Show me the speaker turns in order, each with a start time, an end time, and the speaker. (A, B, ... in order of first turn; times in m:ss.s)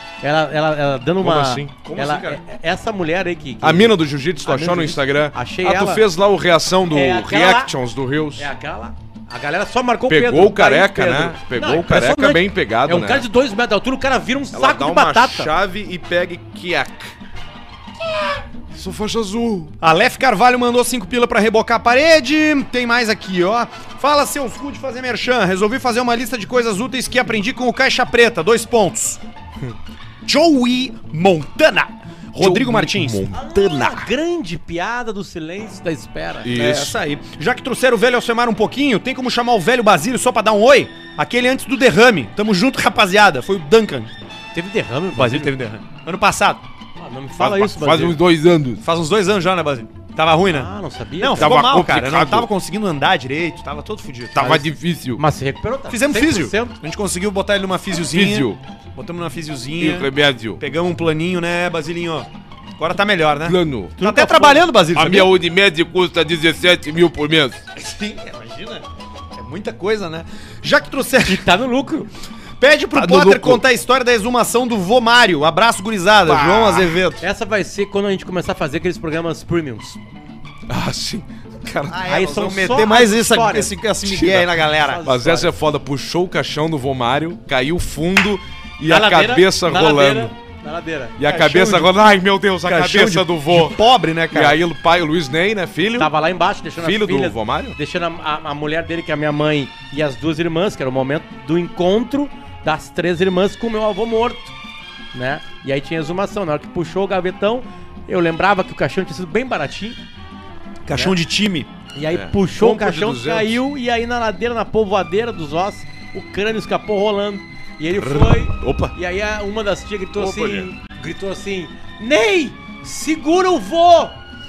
0:00.2-0:06.0 A
0:01.2-0:01.8 B
0:01.8-0:02.4 C
0:03.6-0:08.5 B
0:06.9-0:07.7 A
0:08.4-0:15.5 A
0:10.1-0:13.2 B
0:14.5-0:17.1 B
0:18.7-0:19.7 B
0:19.8-0:29.2 C
0:30.2-0:34.1 C
0:32.4-0:33.4 B
0:33.3-0:36.6 A
0:36.4-0:36.9 B
0:36.5-0:44.1 C
0:44.5-0:45.5 A
0:45.1-0:46.6 C
0:47.0-0:48.2 A
0:47.4-0:48.8 B
0:48.8-0:50.7 C
0:50.4-0:51.5 A
0:51.2-0:54.4 C
0:51.4-0:52.5 B
0:54.3-0:55.2 B
0:54.4-0:56.8 A
0:55.9-1:02.3 C
0:58.1-0:58.6 B
0:59.8-1:00.6 B
1:02.8-1:05.3 C
1:03.4-1:03.9 B
1:04.0-1:04.7 A
1:04.9-1:07.6 B
1:07.7-1:08.8 C
1:09.3-1:11.4 C
1:11.2-1:12.1 A
1:12.6-1:17.2 C
1:12.9-1:13.6 B
1:16.2-1:17.0 B
1:17.2-1:20.0 A
1:20.7-1:22.0 B
1:21.9-1:25.0 C
1:22.0-1:23.8 A
1:24.0-1:24.5 B
1:24.7-1:25.5 A
1:25.0-1:30.3 B
1:28.8-1:31.2 A
1:31.2-1:33.8 B
1:31.2-1:31.9 C
1:32.6-1:34.6 C
1:34.3-1:36.1 B
1:36.0-1:44.5 A
1:36.8-1:37.8 B
1:45.1-1:50.0 A
1:50.8-1:51.7 C
1:51.9-2:04.2 A
1:52.1-1:53.6 B
1:57.9-1:58.9 B
2:00.1-2:00.7 B